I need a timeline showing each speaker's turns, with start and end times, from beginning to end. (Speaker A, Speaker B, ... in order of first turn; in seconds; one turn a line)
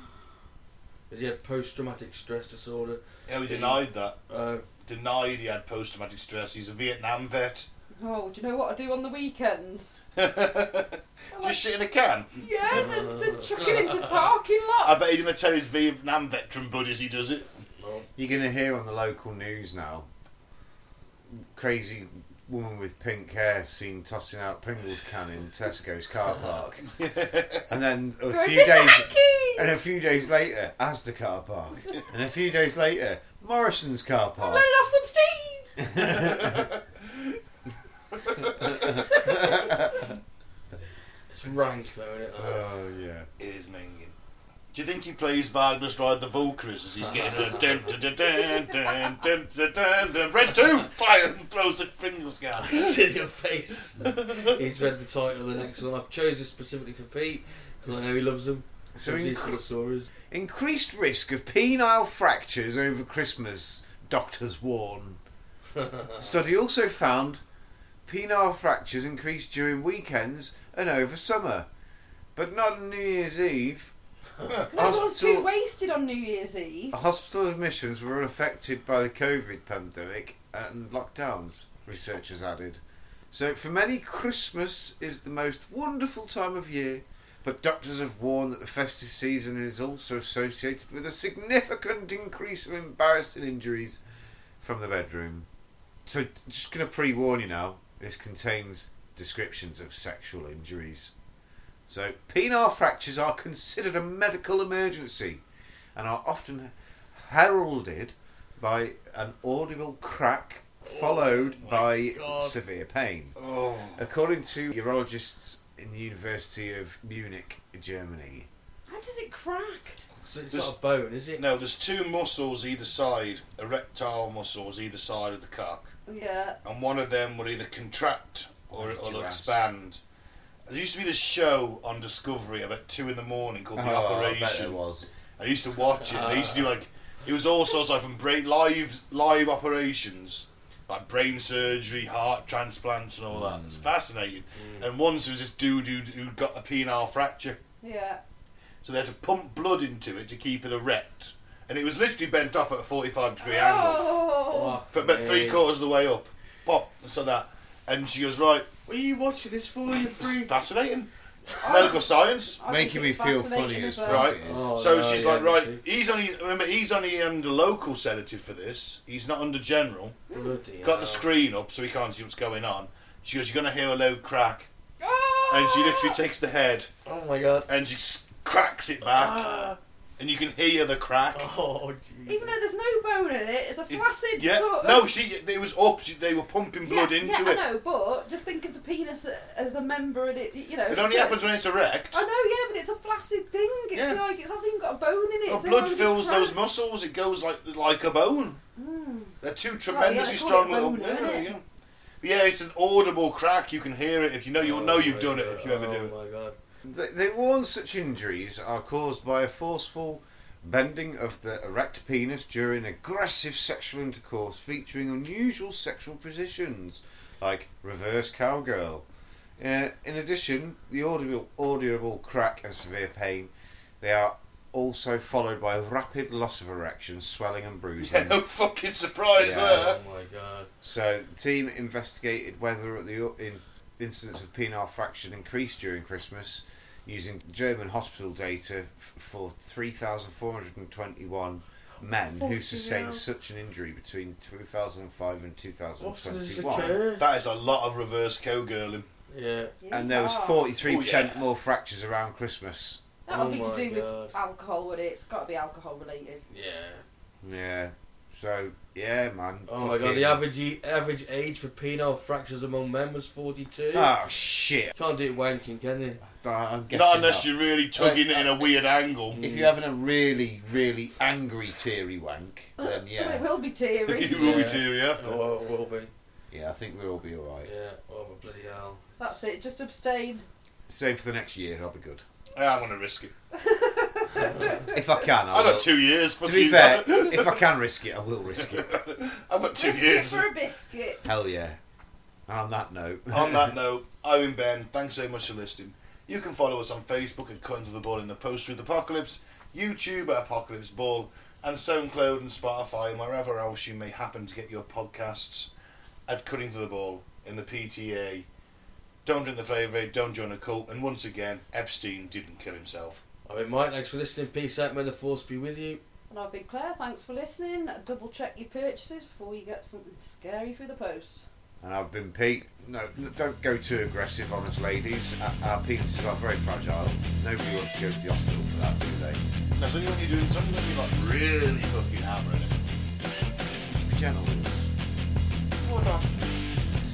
Speaker A: 1.1-4.7
Speaker B: 3.3-4.2
Speaker B: 4.8-7.7
Speaker C: 8.0-10.0
Speaker B: 10.2-12.8
Speaker C: 11.3-11.6
Speaker C: 12.4-15.2
Speaker A: 12.7-14.1
Speaker B: 14.8-17.6
Speaker A: 17.8-18.1
Speaker D: 18.2-20.1
Speaker D: 21.3-26.9
Speaker B: 26.9-27.7
Speaker D: 27.7-34.7
Speaker C: 28.3-29.7
Speaker C: 34.4-35.9
Speaker D: 35.8-36.7
Speaker B: 36.0-37.4
Speaker B: 38.1-38.8
Speaker D: 38.6-39.9
Speaker C: 38.8-39.6
Speaker A: 41.3-42.6
Speaker D: 42.4-43.3
Speaker B: 43.4-44.2
Speaker B: 44.7-53.0
Speaker A: 47.0-48.0
Speaker A: 52.6-60.1
Speaker B: 54.2-54.5
Speaker D: 59.0-59.6
Speaker D: 60.3-65.2
Speaker A: 65.8-66.2
Speaker D: 66.2-67.4
Speaker D: 68.1-71.7
Speaker D: 72.3-73.9
Speaker B: 74.5-75.0
Speaker C: 74.7-77.0
Speaker D: 74.7-75.5
Speaker D: 76.9-82.8
Speaker D: 83.3-94.0
Speaker D: 94.6-95.5
Speaker D: 96.0-101.1
Speaker D: 101.9-105.4
Speaker D: 106.0-113.4
Speaker A: 110.9-112.6
Speaker B: 113.4-114.0
Speaker D: 114.0-118.5
Speaker C: 118.9-120.0
Speaker A: 120.2-121.4
Speaker B: 121.4-125.9
Speaker C: 126.1-126.6
Speaker B: 126.6-130.0
Speaker D: 128.7-129.6
Speaker B: 130.7-134.8
Speaker D: 133.8-135.1
Speaker B: 135.4-147.6
Speaker A: 136.1-136.7
Speaker D: 143.3-143.9
Speaker A: 144.6-144.9
Speaker C: 147.8-148.2
Speaker B: 148.8-154.3
Speaker C: 153.4-154.8
Speaker A: 154.4-155.7
Speaker B: 154.9-158.7
Speaker A: 158.9-160.5
Speaker B: 159.9-161.1
Speaker C: 161.6-164.3
Speaker B: 161.6-162.6
Speaker D: 162.7-164.7
Speaker B: 164.0-170.2
Speaker A: 164.4-165.8
Speaker A: 170.3-171.3
Speaker B: 170.8-174.7
Speaker C: 175.0-176.2
Speaker B: 175.5-176.9
Speaker A: 177.1-177.7
Speaker B: 177.7-179.6
Speaker A: 179.1-179.8
Speaker B: 180.2-181.5
Speaker A: 181.3-182.6
Speaker C: 182.3-185.1
Speaker B: 183.9-187.6
Speaker C: 186.8-191.5
Speaker B: 190.9-192.2
Speaker C: 192.1-196.6
Speaker B: 193.9-194.2
Speaker B: 195.5-198.6
Speaker C: 198.8-199.4
Speaker B: 199.4-201.6
Speaker C: 199.9-201.5
Speaker B: 202.2-206.1
Speaker A: 204.6-206.6
Speaker D: 206.8-219.1
Speaker D: 219.6-228.4
Speaker B: 228.0-230.0
Speaker D: 229.3-230.0
Speaker A: 229.4-230.7
Speaker D: 230.8-247.0
Speaker A: 242.3-243.2
Speaker A: 246.0-247.3
Speaker B: 247.2-249.1
Speaker A: 249.3-249.8
Speaker C: 249.8-250.7
Speaker D: 249.9-253.0
Speaker B: 250.8-251.4
Speaker C: 253.3-256.4
Speaker A: 253.3-254.3
Speaker A: 256.5-257.0
Speaker D: 257.4-260.4
Speaker A: 259.7-264.1
Speaker D: 263.9-264.9
Speaker A: 264.9-266.2
Speaker D: 266.3-268.6
Speaker B: 266.9-269.4
Speaker A: 269.3-269.8
Speaker D: 269.4-273.4
Speaker C: 272.8-274.6
Speaker B: 274.1-275.4
Speaker A: 274.3-276.1
Speaker D: 276.5-277.7
Speaker A: 277.6-279.0
Speaker C: 279.2-280.4
Speaker D: 280.9-282.2
Speaker B: 282.6-283.3
Speaker C: 283.5-285.0
Speaker D: 284.9-288.9
Speaker B: 285.5-287.6
Speaker B: 288.6-290.5
Speaker C: 289.8-291.2
Speaker D: 291.2-291.8
Speaker D: 292.5-293.8
Speaker B: 293.3-305.7
Speaker B: 306.3-308.5
Speaker B: 309.2-313.2
Speaker A: 313.5-316.0
Speaker C: 316.3-321.4
Speaker D: 321.8-329.4
Speaker B: 329.8-333.9
Speaker D: 333.8-334.9
Speaker B: 335.8-336.5